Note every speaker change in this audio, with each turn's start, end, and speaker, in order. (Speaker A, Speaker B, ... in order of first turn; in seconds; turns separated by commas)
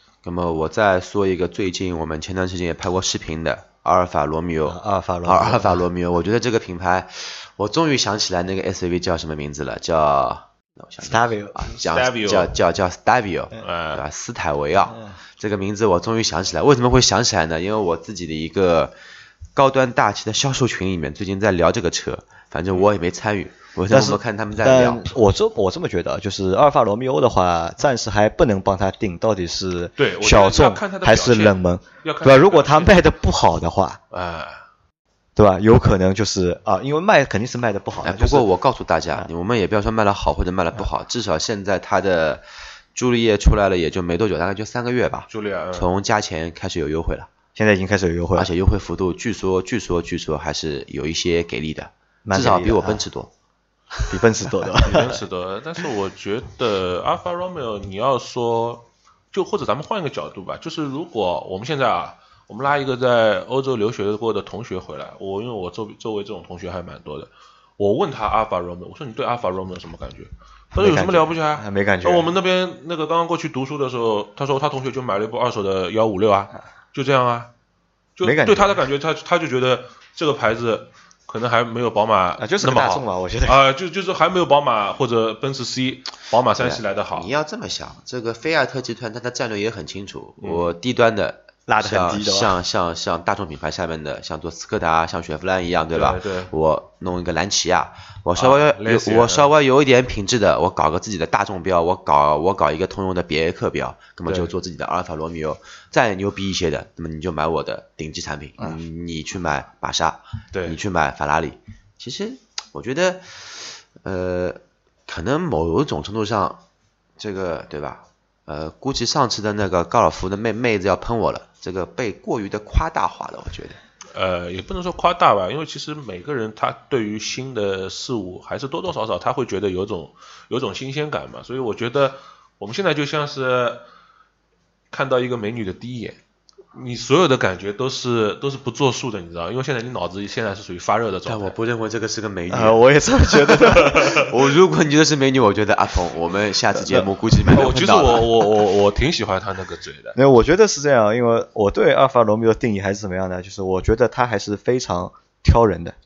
Speaker A: 0.2-18.9, Speaker B: 4.6-5.8, Speaker B: 11.0-11.6, Speaker C: 11.7-12.6, Speaker C: 13.6-14.0, Speaker A: 19.5-25.1, Speaker B: 23.9-34.0, Speaker C: 30.0-33.1, Speaker C: 34.1-34.6, Speaker B: 35.4-38.5, Speaker A: 38.0-47.3, Speaker C: 45.3-45.9, Speaker B: 47.5-48.5, Speaker A: 48.3-53.3, Speaker B: 52.2-53.0, Speaker B: 54.1-55.2, Speaker C: 54.8-77.5, Speaker B: 70.7-72.3, Speaker C: 78.2-87.3, Speaker B: 78.2-78.8, Speaker B: 82.4-83.6, Speaker A: 86.6-116.6, Speaker C: 90.4-90.7, Speaker B: 91.7-92.6, Speaker C: 95.9-96.5, Speaker C: 98.3-99.5, Speaker C: 104.2-104.5, Speaker C: 110.5-110.8, Speaker A: 117.2-123.8, Speaker C: 124.1-133.8, Speaker C: 134.9-136.2, Speaker C: 136.7-141.5, Speaker A: 141.2-148.4, Speaker B: 142.5-144.2, Speaker C: 143.8-144.2, Speaker B: 146.7-147.1, Speaker C: 147.4-150.2, Speaker B: 150.2-155.9